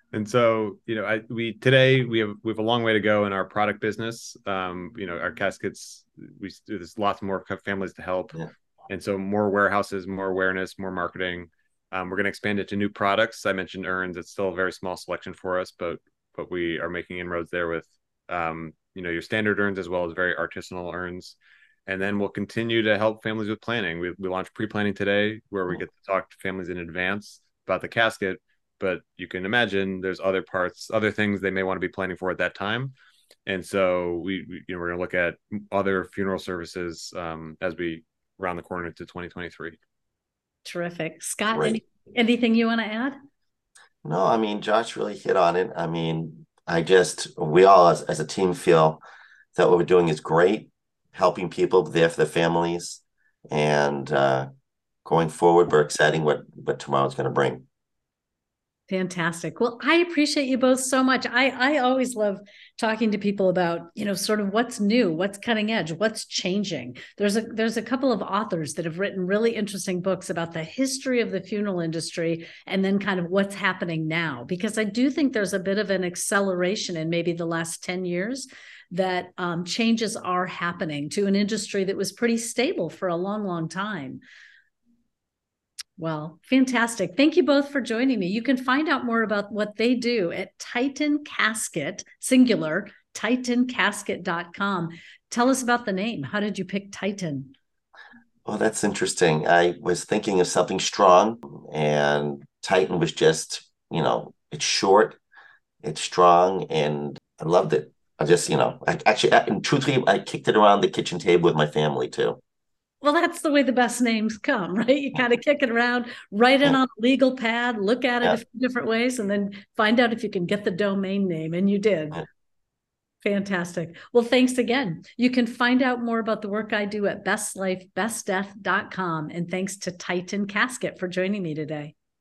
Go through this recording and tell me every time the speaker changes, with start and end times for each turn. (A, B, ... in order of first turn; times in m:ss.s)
0:00.1-0:32.9 A
0:33.4-0:39.8 A
0:40.6-0:43.2 B
0:41.5-0:41.8 C
0:44.0-0:49.0 C
0:49.6-0:54.5 C
0:55.0-0:57.6 C
0:58.9-1:24.2 B
1:26.0-1:37.5 B
1:38.4-1:45.2 C
1:45.8-1:52.4 C
1:53.0-2:02.2 B
2:03.2-2:11.9 B